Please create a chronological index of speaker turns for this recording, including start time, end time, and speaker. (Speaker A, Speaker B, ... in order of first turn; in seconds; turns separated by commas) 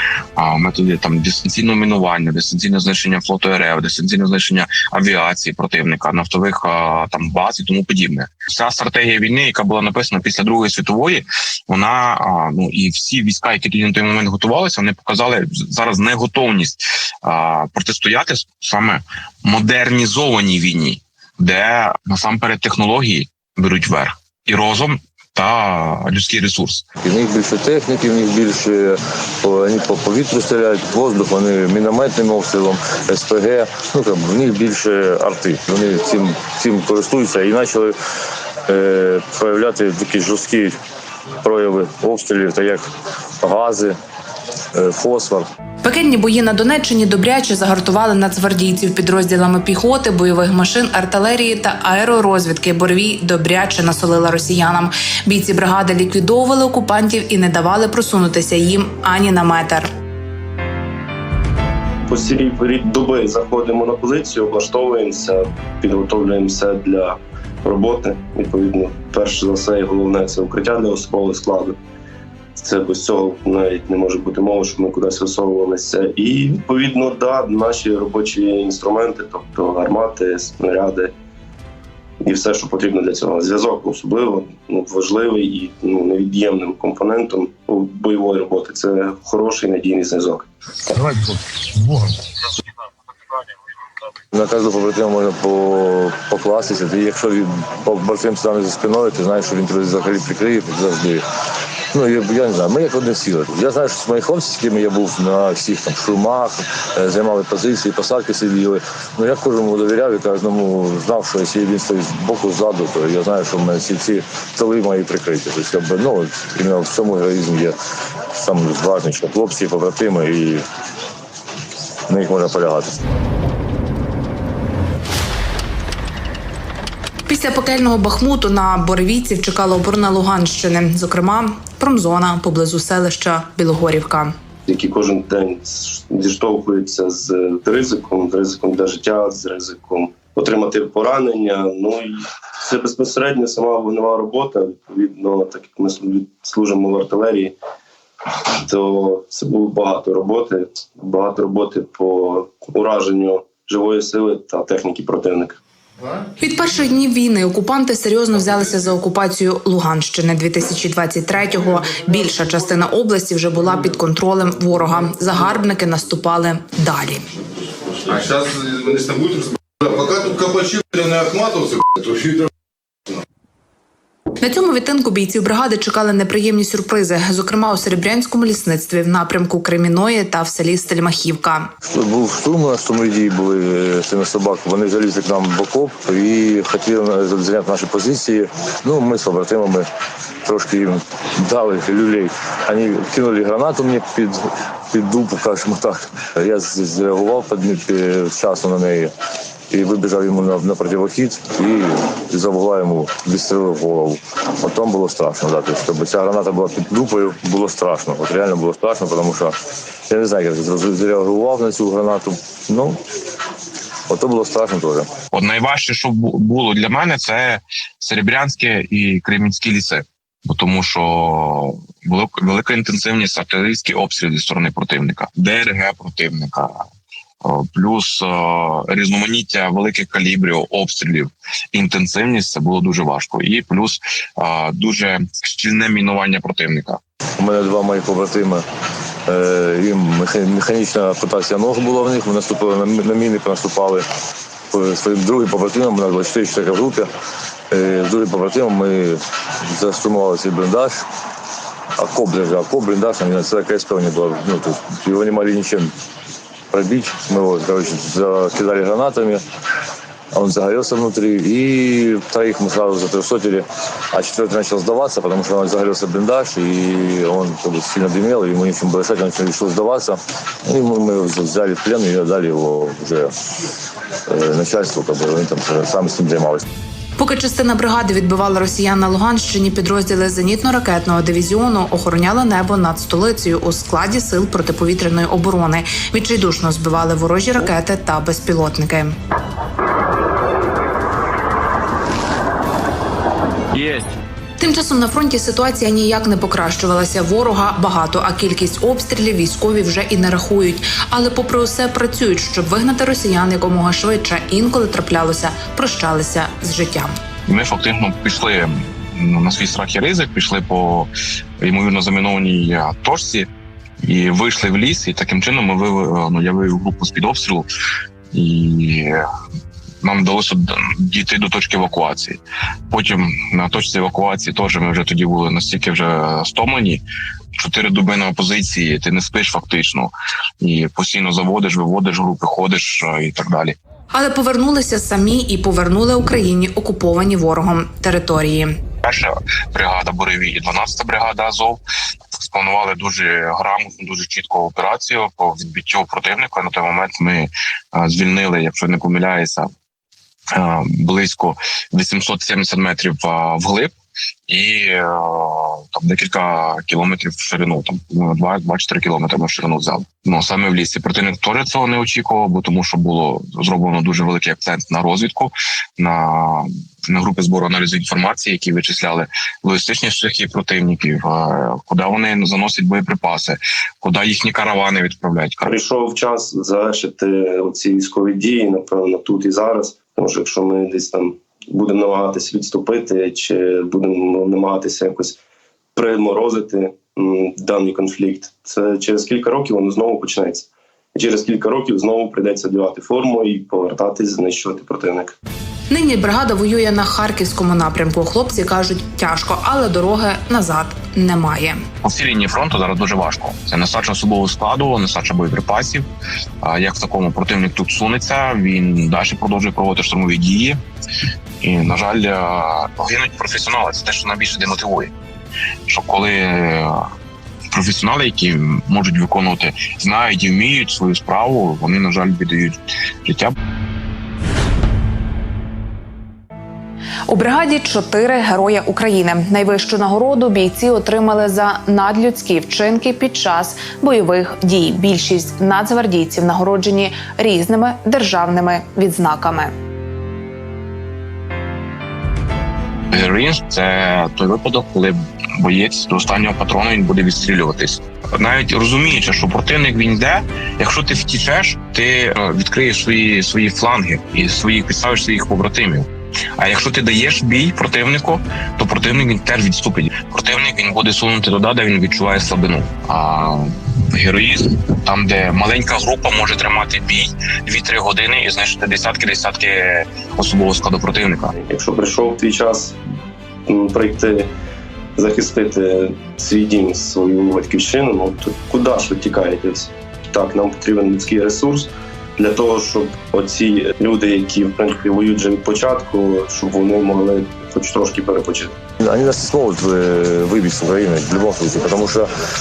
Speaker A: 0.4-26.9, Speaker B: 27.0-38.0, Speaker B: 38.7-40.8, Speaker B: 41.4-42.9, Speaker B: 43.4-44.0, Speaker B: 44.7-45.5, Speaker C: 45.8-59.9, Speaker D: 62.1-71.8, Speaker D: 72.6-81.1, Speaker D: 82.2-90.5, Speaker B: 94.3-101.2, Speaker B: 101.9-117.8, Speaker B: 118.3-120.6, Speaker B: 122.1-123.0, Speaker C: 127.3-134.3, Speaker D: 134.7-147.6, Speaker D: 148.6-155.6, Speaker C: 156.4-167.2, Speaker E: 168.6-172.4, Speaker C: 174.4-181.7, Speaker B: 181.9-189.9, Speaker B: 190.4-199.1, Speaker B: 199.7-209.6, Speaker B: 210.1-213.0, Speaker B: 214.1-215.1, Speaker A: 215.3-226.8, Speaker A: 227.4-237.0, Speaker B: 237.4-238.7, Speaker B: 239.3-244.1, Speaker B: 244.7-247.1, Speaker B: 247.7-251.0, Speaker B: 252.0-255.9, Speaker B: 256.7-259.4, Speaker B: 260.3-273.3, Speaker B: 274.3-276.6, Speaker C: 277.2-289.2, Speaker C: 294.6-307.2, Speaker A: 307.5-313.5, Speaker A: 314.0-317.7, Speaker A: 318.3-319.2, Speaker A: 320.0-327.0, Speaker A: 327.6-333.8, Speaker C: 334.1-338.8, Speaker A: 339.0-341.8, Speaker A: 342.3-349.7, Speaker A: 350.5-353.9, Speaker A: 354.5-375.8, Speaker D: 375.6-385.4, Speaker D: 385.9-395.4, Speaker C: 395.9-401.8, Speaker A: 402.0-406.1, Speaker A: 406.6-410.8, Speaker A: 411.6-415.1, Speaker A: 415.9-417.0, Speaker A: 417.7-423.5, Speaker C: 427.3-439.7, Speaker A: 443.1-471.5, Speaker D: 471.6-473.0, Speaker D: 473.7-474.5, Speaker D: 475.2-488.7, Speaker B: 489.0-492.3